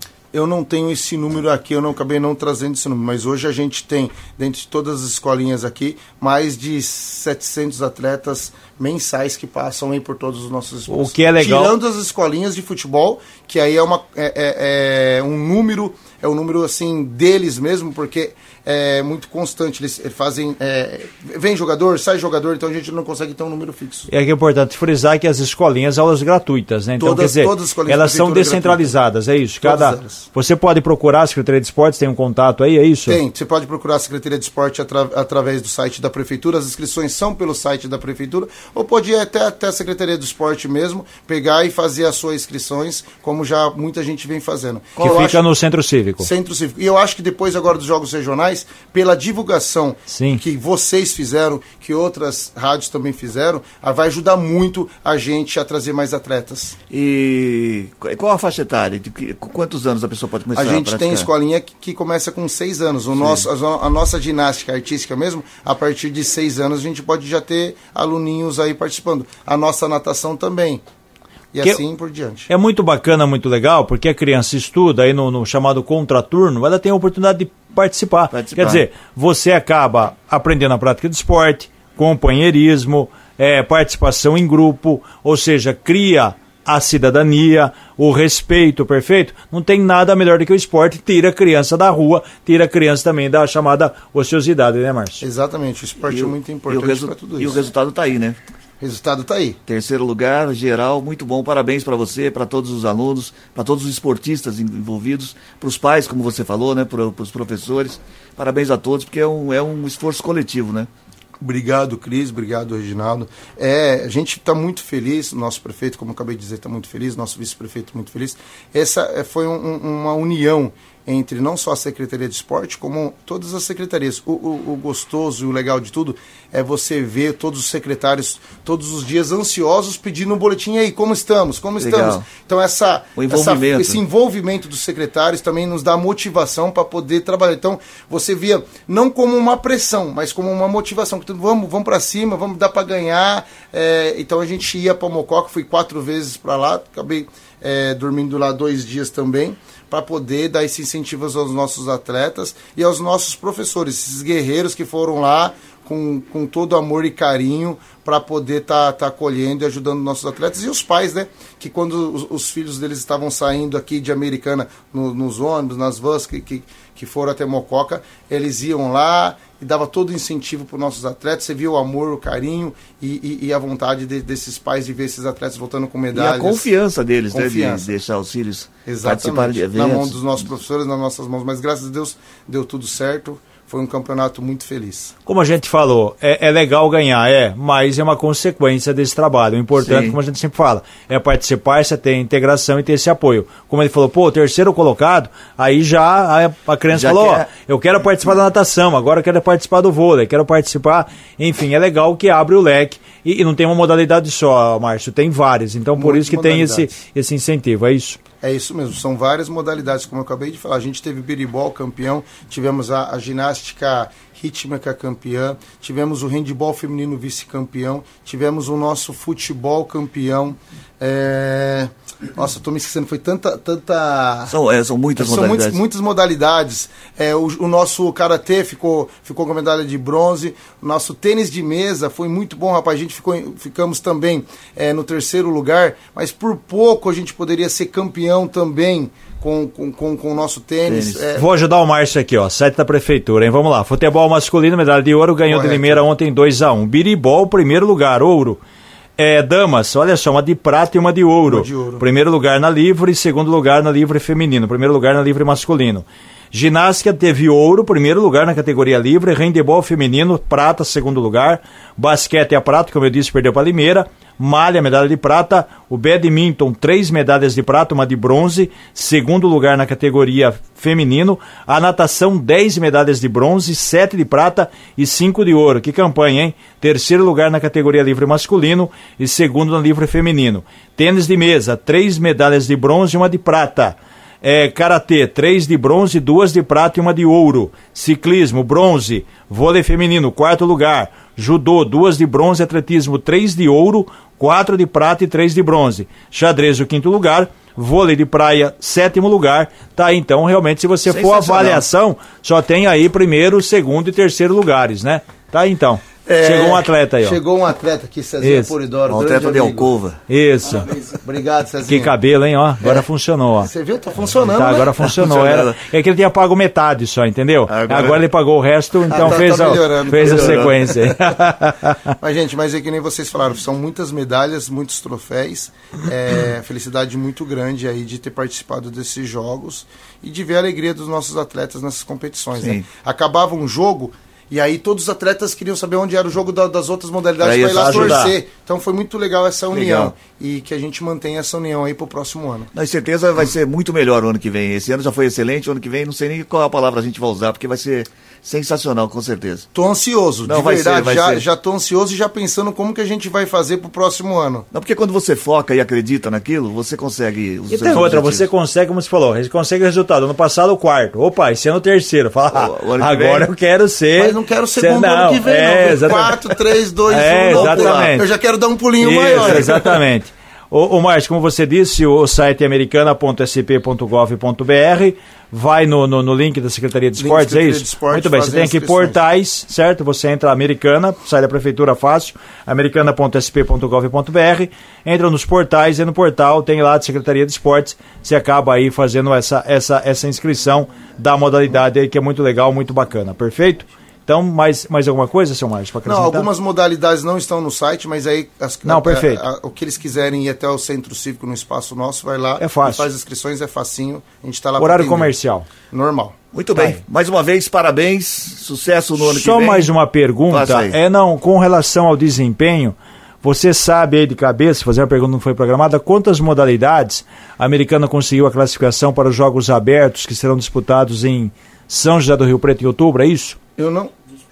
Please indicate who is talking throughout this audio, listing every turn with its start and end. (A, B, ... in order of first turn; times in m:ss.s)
0:00.3-0:24.1 A
0:10.9-0:11.8 B
0:24.1-0:33.2 B
0:27.0-0:29.0 A
0:29.6-0:30.3 A
0:33.1-0:45.4 A
0:45.0-0:45.3 C
0:45.0-0:46.3 B
0:46.2-0:56.8 A
0:50.1-0:50.4 B
0:56.9-1:01.3 C
1:00.6-1:10.8 A
1:03.2-1:03.5 C
1:11.5-1:12.5 A
1:12.5-1:35.2 B
1:18.3-1:18.8 C
1:35.2-1:37.6 A
1:36.1-1:38.4 C
1:38.8-1:39.6 A
1:39.7-1:50.9 C
1:51.4-2:56.7 A
2:11.8-2:12.2 C
2:13.2-2:14.0 C
2:56.1-3:00.3 C
2:57.3-2:57.9 A
2:58.9-3:05.1 A
3:05.3-3:28.2 B
3:09.8-3:10.2 C
3:16.9-3:17.5 C
3:26.0-3:27.0 A
3:28.4-3:44.6 A
3:44.5-3:45.8 C
3:45.2-4:01.5 A
4:00.9-4:01.2 C
4:01.4-4:08.6 B
4:05.5-4:06.0 A
4:09.2-5:07.4 B
4:11.4-4:12.0 A
5:01.1-5:01.8 C
5:06.2-5:09.9 A
5:08.4-5:08.7 B
5:09.1-5:10.2 C
5:10.3-5:10.9 B
5:11.0-5:12.2 A
5:11.9-5:13.7 B
5:13.6-5:15.0 A
5:14.5-5:22.1 B
5:15.1-5:15.8 C
5:17.7-5:18.2 C
5:19.1-5:21.2 A
5:20.2-5:20.7 C
5:22.2-5:42.7 A
5:32.6-5:32.9 C
5:37.4-5:38.3 C
5:37.7-5:38.4 B
5:39.7-5:40.2 C
5:42.7-5:49.7 C
5:49.7-5:54.7 A
5:50.4-5:51.4 C
5:54.7-5:58.5 C
5:57.7-6:06.4 B
6:02.5-6:03.5 C
6:04.2-6:09.8 A
6:07.1-6:08.3 B
6:07.5-6:08.2 C
6:09.0-6:36.5 B
6:09.4-6:09.6 C
6:17.2-6:19.2 A
6:36.0-6:46.4 A
6:38.8-6:39.4 B
6:42.6-6:43.1 B
6:44.8-6:45.7 B
6:46.5-6:49.9 C
6:49.2-7:03.6 B
6:50.5-6:51.0 C
7:03.8-7:04.1 A